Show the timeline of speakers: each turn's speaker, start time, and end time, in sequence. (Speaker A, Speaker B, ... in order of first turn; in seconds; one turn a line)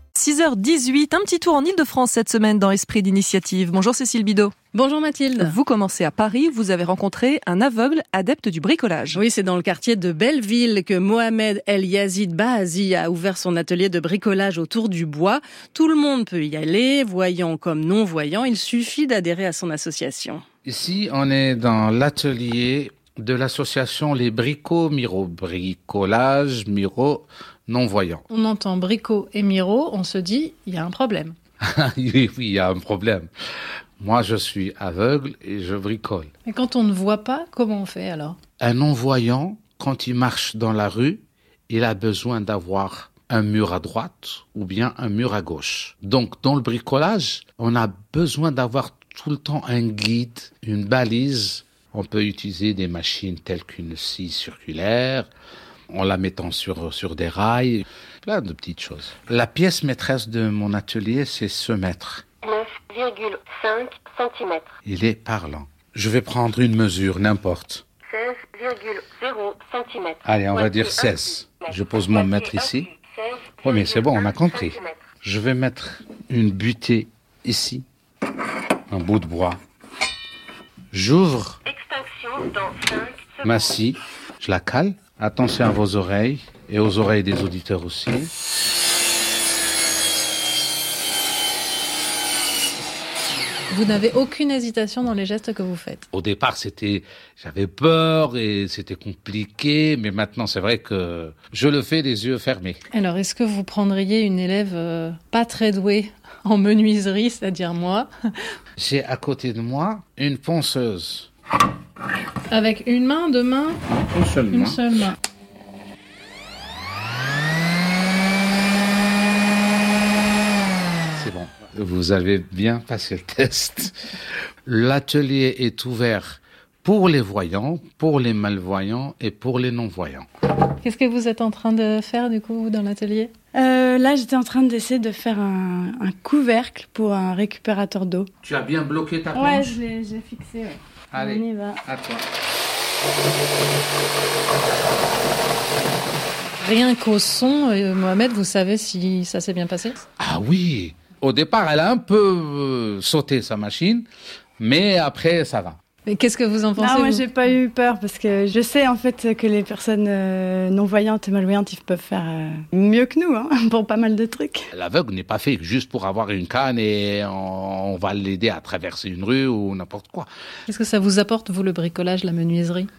Speaker A: 0.1-4.5
Speaker B: 4.7-5.5
Speaker A: 5.4-9.2
Speaker B: 9.2-20.4
Speaker C: 20.6-28.2
Speaker D: 28.3-31.4
Speaker C: 31.6-33.3
Speaker C: 34.0-36.3
Speaker D: 36.5-38.4
Speaker C: 38.6-55.3
Speaker C: 55.9-62.2
Speaker E: 62.5-64.7
Speaker C: 64.8-67.8
Speaker E: 68.2-70.2
Speaker C: 70.2-72.9
Speaker E: 73.3-73.6
Speaker C: 73.6-77.8
Speaker C: 78.9-79.6
Speaker C: 80.9-81.6
Speaker E: 81.8-83.1
Speaker C: 83.4-88.3
Speaker D: 93.7-96.1
Speaker C: 96.1-102.8
Speaker D: 102.9-108.1
Speaker C: 108.8-111.3
Speaker D: 112.5-113.8
Speaker C: 114.1-114.8
Speaker D: 114.5-115.2
Speaker C: 121.1-124.0
Speaker C: 124.7-130.3
Speaker D: 130.8-133.3
Speaker F: 133.5-138.3
Speaker C: 138.4-139.8
Speaker F: 139.4-141.8
Speaker C: 141.1-142.2
Speaker D: 146.6-150.0
Speaker C: 150.2-154.1
Speaker C: 154.6-155.8
Speaker D: 156.1-157.3
Speaker F: 156.8-164.7
Speaker C: 164.7-170.3
Speaker D: 170.7-172.9